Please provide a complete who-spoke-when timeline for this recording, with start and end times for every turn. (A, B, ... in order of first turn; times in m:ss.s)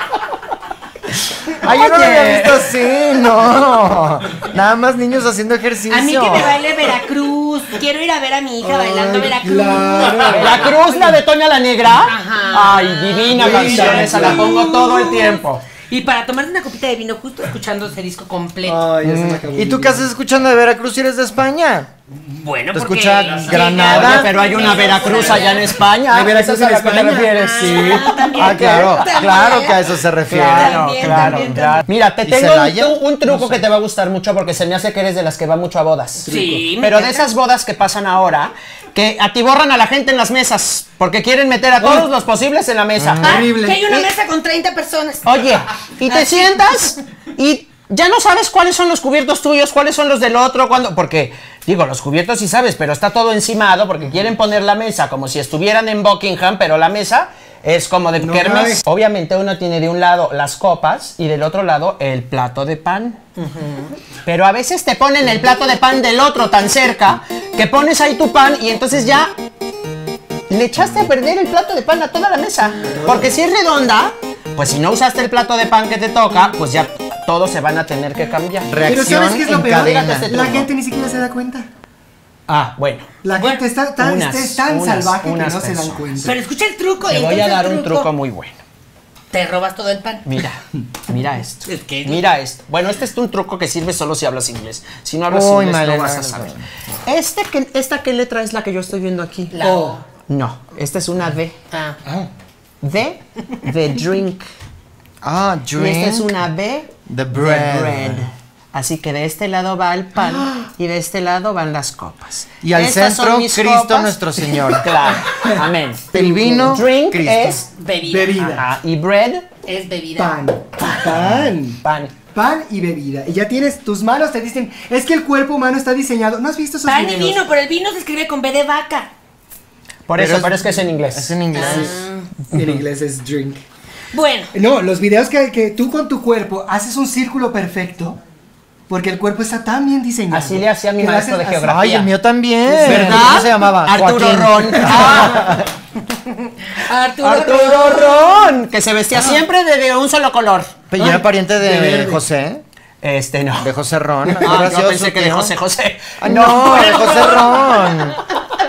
0:01.5-0:02.7 A
0:01.6-0:06.6 B
0:05.9-0:11.1 C
0:08.6-0:11.2 D
0:10.3-0:15.6 A
0:11.9-0:18.8 C
0:13.3-0:14.9 D
0:18.6-0:20.1 D
0:19.0-0:21.9 B
0:22.2-0:25.8 C
0:22.7-0:24.4 B
0:23.5-0:29.4 A
0:26.1-0:28.4 D
0:27.3-0:31.8 C
0:28.4-0:33.0 B
0:30.3-0:36.3 A
0:33.2-0:33.6 D
0:36.2-0:36.7 D
0:36.3-0:37.3 C
0:36.8-0:44.1 A
0:41.8-0:42.1 D
0:43.0-0:43.3 B
0:43.2-0:43.8 D
0:43.2-0:46.9 C
0:45.2-1:03.2 A
0:58.2-0:58.8 D
1:03.4-1:03.9 C
1:04.2-1:09.3 A
1:10.5-1:20.7 A
1:12.9-1:13.3 D
1:18.7-1:20.3 B
1:18.8-1:21.7 D
1:22.5-1:23.1 A
1:23.2-1:26.4 D
1:23.4-1:23.6 C
1:24.0-1:26.0 A
1:26.2-1:28.1 C
1:27.0-1:28.6 A
1:29.3-1:30.2 C
1:30.2-1:36.5 A
1:31.7-1:32.2 C
1:35.3-1:36.6 B
1:37.0-1:39.6 A
1:39.5-1:40.0 C
1:39.6-1:40.0 D
1:40.3-1:41.6 A
1:41.7-1:42.0 C
1:42.0-1:42.3 D
1:42.8-1:44.5 A
1:45.2-1:46.3 B
1:45.8-1:57.6 A
1:47.1-1:48.2 B
1:52.6-1:55.0 B
1:54.6-1:55.6 D
1:56.1-1:57.6 B
1:56.2-1:56.7 D
1:57.7-1:58.5 C
1:58.1-1:58.7 D
1:58.4-1:59.4 A
1:59.6-2:00.3 C
2:00.2-2:01.8 D
2:00.9-2:01.2 A
2:01.8-2:02.1 A
2:02.3-2:07.4 D
2:06.8-2:09.1 C
2:10.0-2:11.4 A
2:10.2-2:12.0 B
2:11.5-2:12.3 C
2:11.6-2:11.9 D
2:12.4-2:13.6 D
2:14.1-2:14.5 C
2:14.5-2:18.2 D
2:18.9-2:21.8 D
2:20.3-2:22.1 A
2:21.7-2:25.7 B
2:22.7-2:23.4 D
2:22.7-2:25.6 A
2:24.8-2:25.2 D
2:26.2-2:28.6 C
2:27.2-2:30.8 A
2:29.1-2:29.4 D
2:30.9-2:32.6 B
2:31.0-2:32.2 D
2:33.0-2:33.7 A
2:33.6-2:35.5 B
2:34.2-2:37.4 A
2:36.2-2:38.2 B
2:36.5-2:38.1 C